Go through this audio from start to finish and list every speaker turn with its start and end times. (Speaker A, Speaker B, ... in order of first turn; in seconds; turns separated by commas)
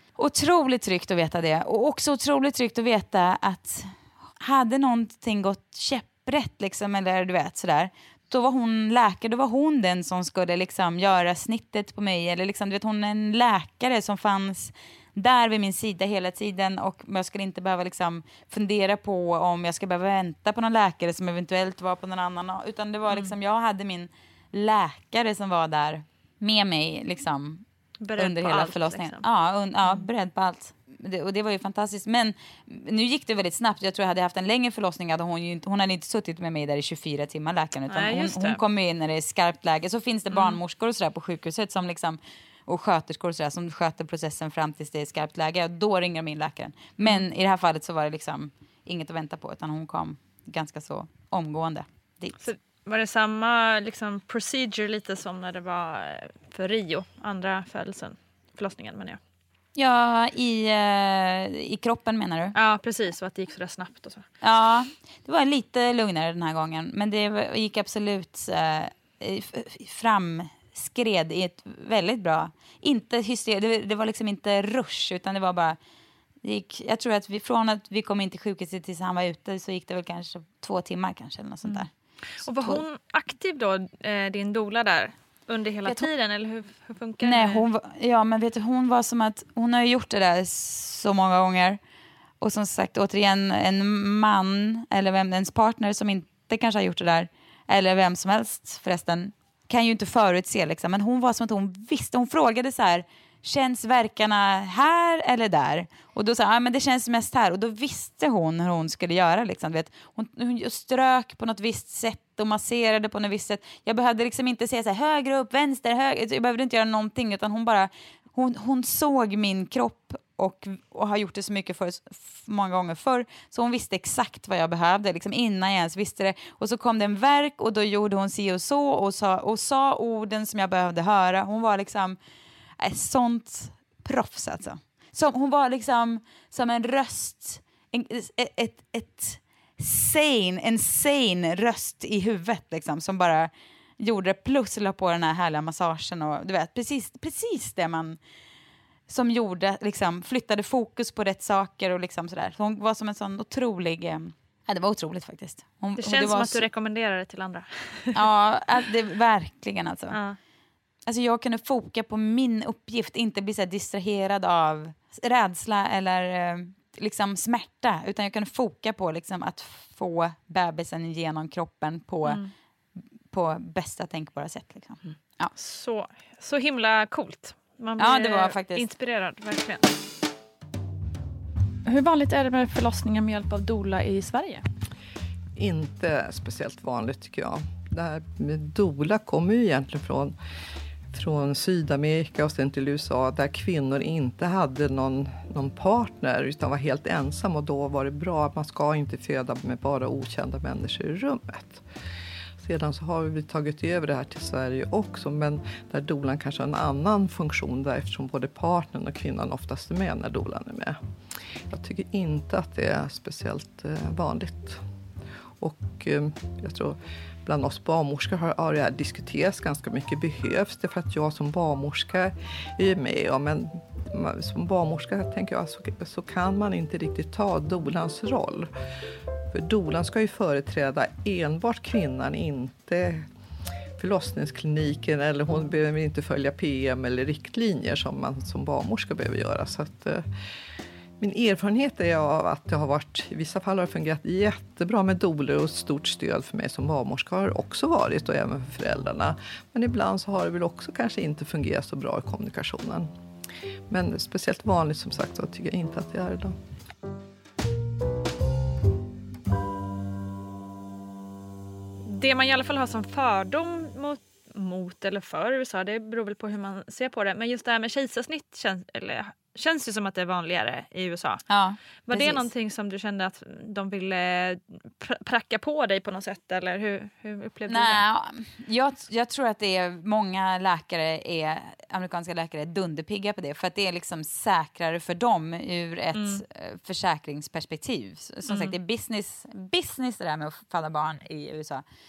Speaker A: 0.1-27.6, Speaker B: 28.0-29.2, Speaker A: 28.1-52.4, Speaker B: 37.9-38.6, Speaker B: 40.3-40.6, Speaker B: 52.4-59.2, Speaker A: 59.7-62.5, Speaker B: 62.5-64.3, Speaker A: 64.4-75.8, Speaker A: 76.4-81.9, Speaker B: 82.4-87.6, Speaker A: 82.4-82.8, Speaker A: 85.8-86.1, Speaker A: 87.2-91.8, Speaker A: 92.4-132.2, Speaker A: 132.8-148.2, Speaker A: 149.1-156.7, Speaker B: 156.0-158.1, Speaker A: 158.1-160.2, Speaker B: 160.1-160.4, Speaker A: 161.1-172.4, Speaker B: 172.2-172.5, Speaker A: 173.3-175.5, Speaker B: 175.6-179.9, Speaker A: 178.0-178.9, Speaker B: 181.8-184.6, Speaker C: 185.6-190.3, Speaker C: 191.1-201.8, Speaker C: 202.6-211.0, Speaker C: 211.7-214.8, Speaker C: 215.6-228.7, Speaker C: 229.5-233.2, Speaker C: 234.0-240.2, Speaker C: 241.2-253.1, Speaker C: 253.9-256.5, Speaker B: 262.0-271.4, Speaker A: 271.5-272.5, Speaker B: 272.0-278.0, Speaker A: 277.7-291.8, Speaker B: 286.1-286.4, Speaker B: 288.5-288.7